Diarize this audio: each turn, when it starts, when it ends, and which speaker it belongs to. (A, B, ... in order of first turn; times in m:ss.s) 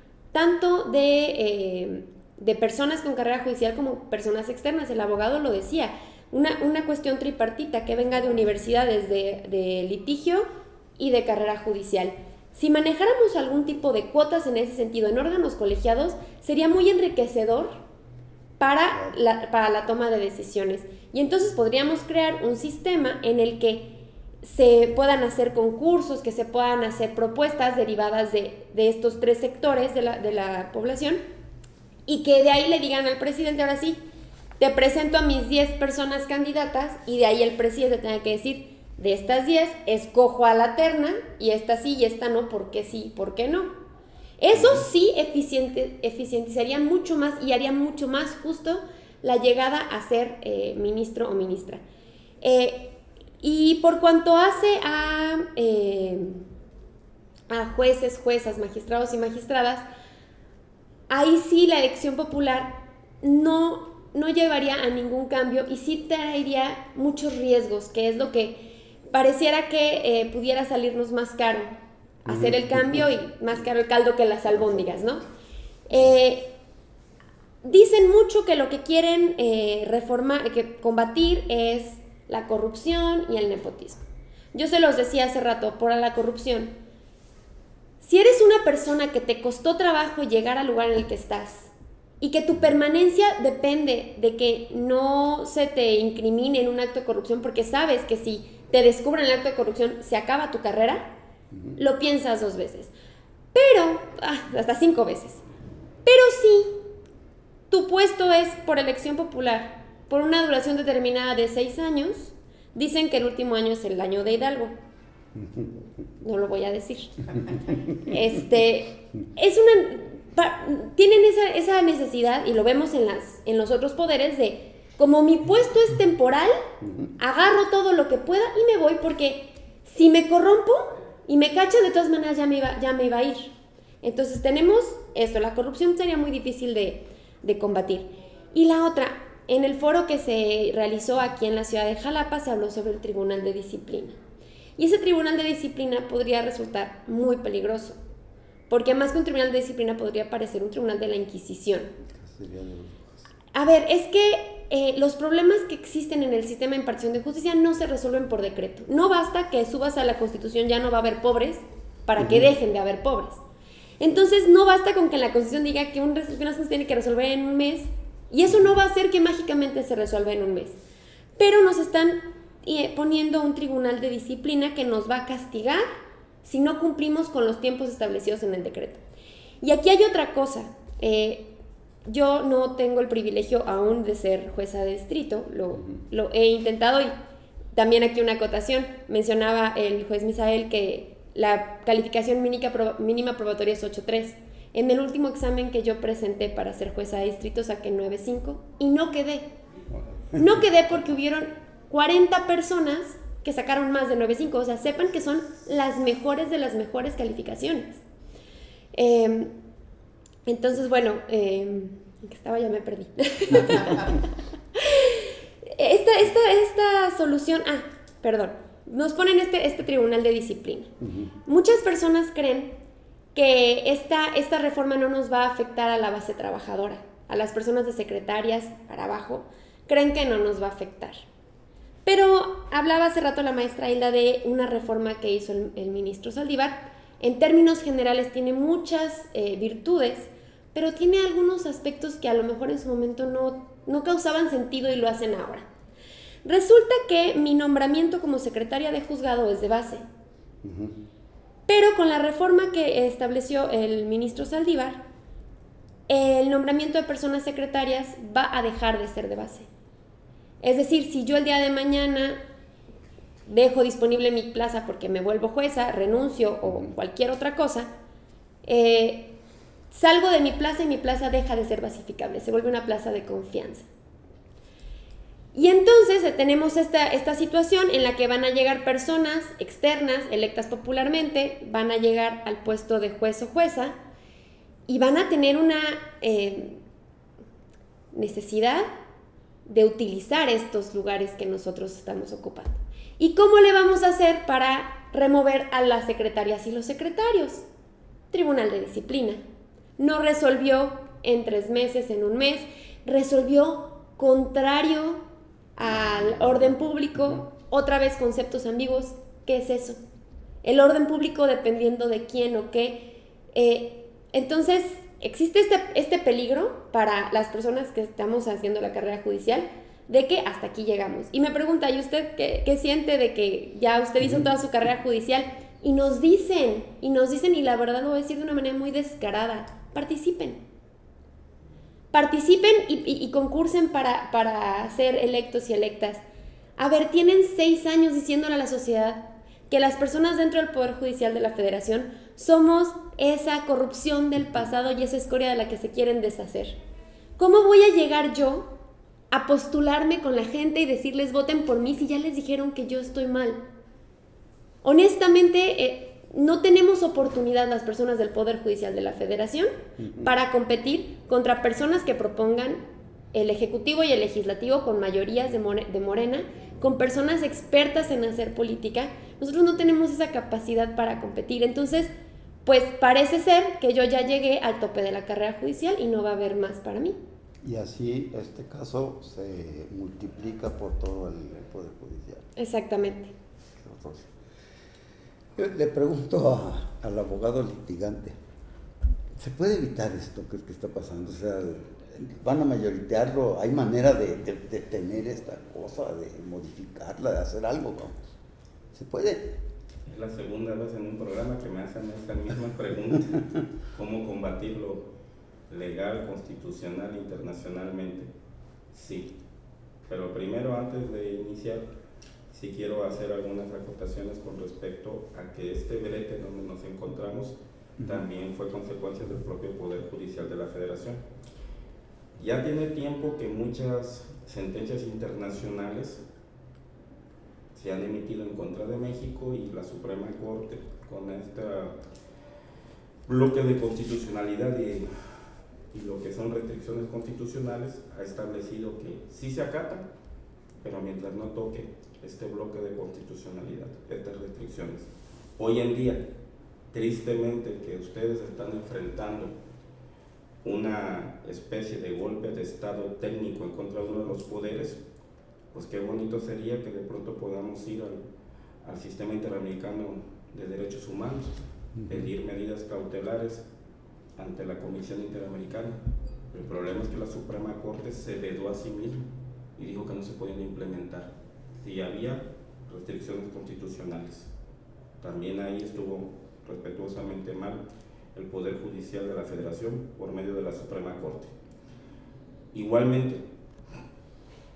0:00.3-0:10.5 A
0:11.0-0:17.8 A
0:18.6-0:31.2 A
0:32.1-0:34.0 A
0:34.6-0:43.7 A
0:44.4-0:51.8 A
0:44.5-0:44.8 B
0:52.4-0:56.4 A
0:57.5-0:59.8 A
1:01.1-1:11.7 A
1:12.2-1:15.2 A
1:12.3-1:13.0 B
1:14.5-1:14.8 B
1:15.9-1:16.5 A
1:17.6-1:24.0 A
1:24.5-1:26.7 A
1:28.0-1:41.1 A
1:41.5-1:41.8 B
1:41.8-1:42.9 A
1:43.5-1:45.4 A
1:46.0-1:46.8 A
1:47.7-1:54.7 A
1:55.4-1:55.7 B
1:56.2-2:06.6 A
2:06.8-2:07.1 B
2:07.2-2:13.5 A
2:14.0-2:24.2 A
2:24.8-2:28.0 A
2:28.7-2:31.9 A
2:32.1-2:33.3 B
2:33.5-2:43.4 A
2:42.2-2:42.5 B
2:44.0-2:50.8 A
2:51.4-2:55.8 A
2:56.4-2:59.0 A
2:59.6-3:01.5 A
3:02.0-3:07.1 A
3:07.7-3:19.5 A
3:19.9-3:20.7 B
3:20.4-3:28.0 A
3:28.9-3:29.5 A
3:30.5-3:40.9 A
3:41.0-3:41.3 B
3:41.5-3:42.7 A
3:43.4-3:51.2 A
3:52.0-4:05.7 A
4:06.4-4:10.0 A
4:10.6-4:11.0 B
4:11.7-4:15.0 A
4:16.1-4:19.7 A
4:20.6-4:22.4 A
4:23.5-4:27.9 A
4:26.6-4:26.9 B
4:28.6-4:29.3 A
4:29.9-4:33.9 A
4:35.5-4:44.0 A
4:44.9-4:46.8 A
4:48.1-4:48.9 A
4:49.7-4:57.6 A
4:58.3-4:59.4 A
5:00.0-5:05.2 A
5:05.8-5:10.0 A
5:06.2-5:06.7 B
5:10.6-5:30.6 A
5:32.1-5:36.2 A
5:36.8-5:46.8 A
5:47.4-5:48.7 A
5:49.3-5:53.6 A
5:54.8-6:02.8 A
6:00.0-6:00.3 B
6:03.3-6:12.1 A
6:12.6-6:17.2 A
6:17.6-6:22.4 B
6:22.6-6:23.3 A
6:23.8-6:24.3 B
6:25.6-6:28.4 B
6:29.4-6:38.3 B
6:38.9-6:39.5 B
6:40.1-6:45.1 C
6:45.7-6:48.3 C
6:48.9-6:49.4 C
6:50.1-6:51.9 C
6:52.5-7:01.2 C
7:02.4-7:06.2 C
7:07.8-7:12.0 C
7:13.3-7:15.1 C
7:15.9-7:20.1 C
7:20.8-7:26.3 C
7:26.9-7:29.6 C
7:30.6-7:35.0 C
7:35.7-7:38.2 C
7:38.8-7:41.6 C
7:42.0-7:42.3 B
7:42.1-7:43.6 C
7:44.4-7:46.0 C
7:46.5-7:49.3 C
7:49.8-7:54.5 C
7:55.2-7:57.8 C
7:58.4-8:01.5 C
8:02.7-8:03.4 C